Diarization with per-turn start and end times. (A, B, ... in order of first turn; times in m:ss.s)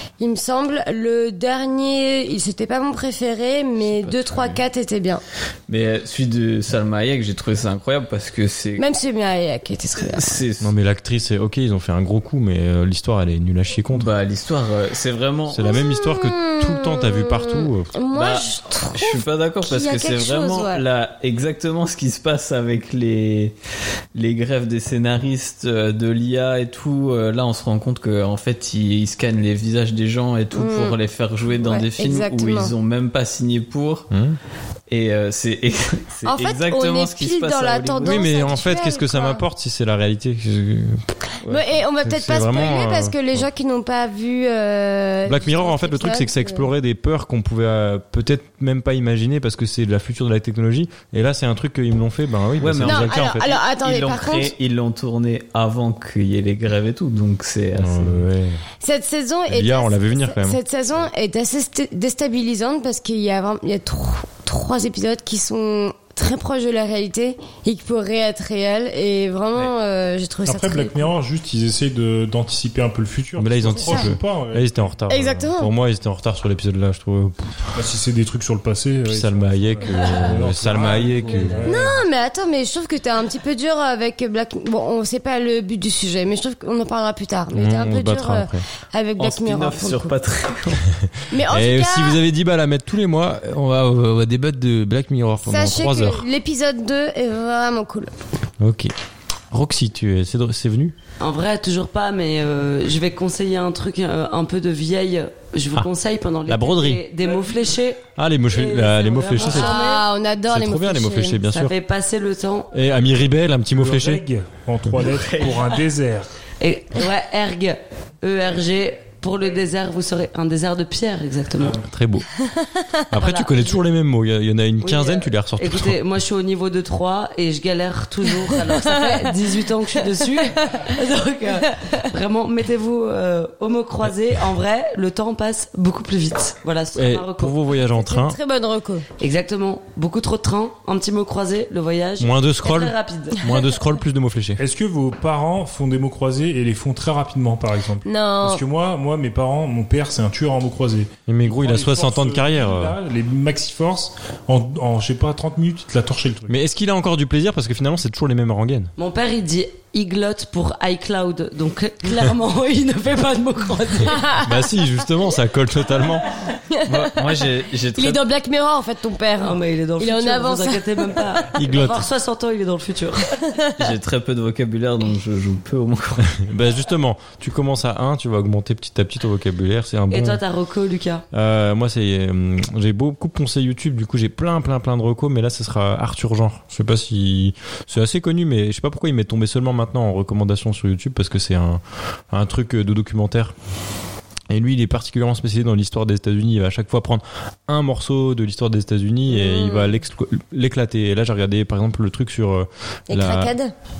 0:00.2-0:05.2 A
0:03.8-0:04.6 B
0:05.7-0:08.8 B
0:08.8-0:10.4 A
0:10.0-0:10.7 B
0:10.6-0:14.1 C
0:13.9-0:15.7 B
0:15.5-0:17.9 C
0:15.6-0:20.8 A
0:18.1-0:23.6 B
0:24.1-0:34.1 B
0:30.5-0:31.0 A
0:31.7-0:32.7 A
0:34.1-0:34.4 C
0:34.9-0:38.2 B
0:36.3-0:39.4 A
0:38.0-0:41.0 C
0:41.5-0:46.7 A
0:42.0-0:43.5 C
0:45.3-0:53.6 C
0:52.6-0:58.2 B
0:52.8-0:54.5 A
0:57.7-0:58.6 C
0:58.8-1:11.1 A
0:59.5-1:00.6 C
1:10.4-1:14.9 D
1:13.4-1:17.7 C
1:13.7-1:14.1 A
1:15.1-1:15.7 A
1:17.7-1:22.0 D
1:19.1-1:21.6 C
1:20.7-1:21.7 B
1:21.6-1:30.2 A
1:27.5-1:28.6 C
1:29.2-1:30.9 B
1:31.0-1:36.3 C
1:31.3-1:32.2 A
1:35.4-1:38.1 A
1:38.6-1:38.9 C
1:39.5-1:40.9 C
1:41.2-1:50.0 E
1:46.5-1:47.0 C
1:48.1-1:49.9 C
1:49.4-1:51.4 A
1:50.5-1:51.7 C
1:51.4-1:52.7 E
1:52.7-1:54.2 C
1:53.7-1:56.3 D
1:55.0-1:55.7 B
1:56.6-2:01.8 E
2:01.8-2:02.3 C
2:03.1-2:06.0 C
2:03.1-2:03.8 E
2:04.8-2:17.5 E
2:08.5-2:09.3 A
2:10.4-2:10.9 A
2:16.9-2:18.4 C
2:17.9-2:19.0 A
2:19.2-2:23.4 E
2:22.2-2:24.6 C
2:24.6-2:36.6 D
2:28.0-2:28.6 A
2:31.3-2:33.0 C
2:36.5-2:38.9 C
2:39.0-2:44.3 E
2:44.0-2:44.5 A
2:44.4-2:46.3 C
2:46.7-2:47.3 A
2:46.8-2:48.2 B
2:48.0-2:51.5 A
2:49.4-2:53.4 E
2:51.5-2:52.0 C
2:53.4-2:53.7 A
2:53.8-2:56.3 B
2:56.3-3:00.4 C
3:00.1-3:01.2 E
3:01.3-3:13.5 C
3:14.5-3:23.5 C
3:19.3-3:19.9 A
3:23.1-3:23.7 A